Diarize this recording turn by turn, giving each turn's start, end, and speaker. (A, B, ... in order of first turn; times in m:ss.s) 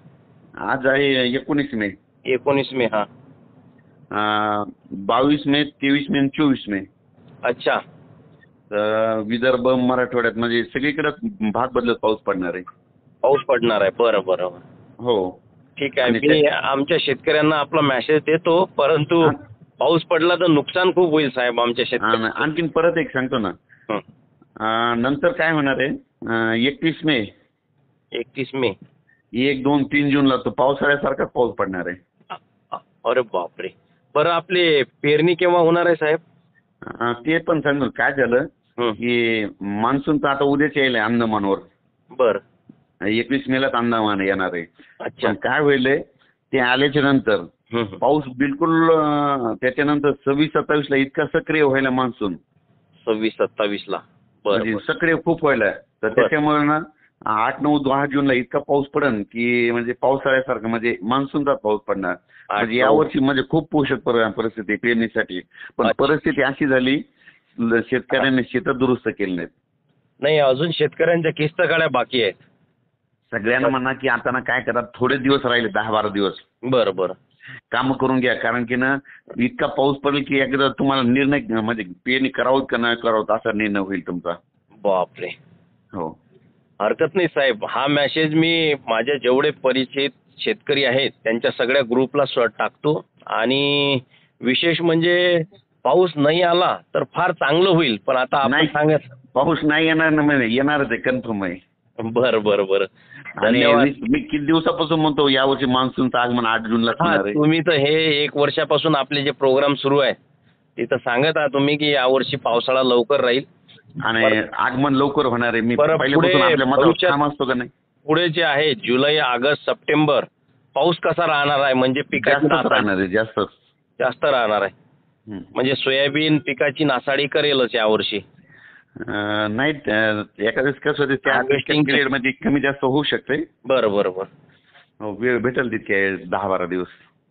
0:00.6-0:01.9 A
0:02.3-0:03.0 B
0:04.1-0:06.8 A
0:07.4-0:07.8 B
0:08.7-0:12.6 A
0:13.2-0:14.6 B
0:15.0-0:15.3 A
0:15.8-0:22.4 B
0:16.0-0:16.4 A
0:22.0-0:23.5 A
0:24.6-0:27.3 A
0:28.1-0:28.7 B
0:29.4-0:32.0 A
0:32.3-0:36.2 B
0:36.8-0:38.5 A
0:39.0-0:41.6 A
0:42.1-0:42.4 B
0:43.1-0:44.7 A
0:45.0-0:45.4 B
0:45.2-0:46.0 A
0:46.5-0:47.4 A
0:47.7-0:48.0 B
0:48.0-0:52.4 A
0:53.0-0:54.8 B
0:54.5-1:07.0 A
1:02.5-1:03.1 B
1:05.8-1:06.1 B
1:07.6-1:09.5 A
1:10.2-1:12.3 B
1:13.3-1:16.4 A
1:16.7-1:17.1 B
1:17.7-1:24.4 A
1:24.8-1:25.4 B
1:26.8-1:39.1 B
1:38.4-1:38.7 A
1:39.3-1:41.6 A
1:42.0-1:42.9 B
1:43.4-1:47.4 A
1:43.4-1:43.9 B
1:47.0-1:50.2 B
1:50.8-1:53.5 B
1:54.0-1:57.7 A
1:55.8-1:57.2 B
1:58.0-2:02.9 B
2:02.2-2:03.5 A
2:04.0-2:04.7 B
2:05.5-2:08.2 B
2:09.0-2:13.4 A
2:11.3-2:12.0 B
2:13.6-2:14.3 B
2:15.0-2:16.9 A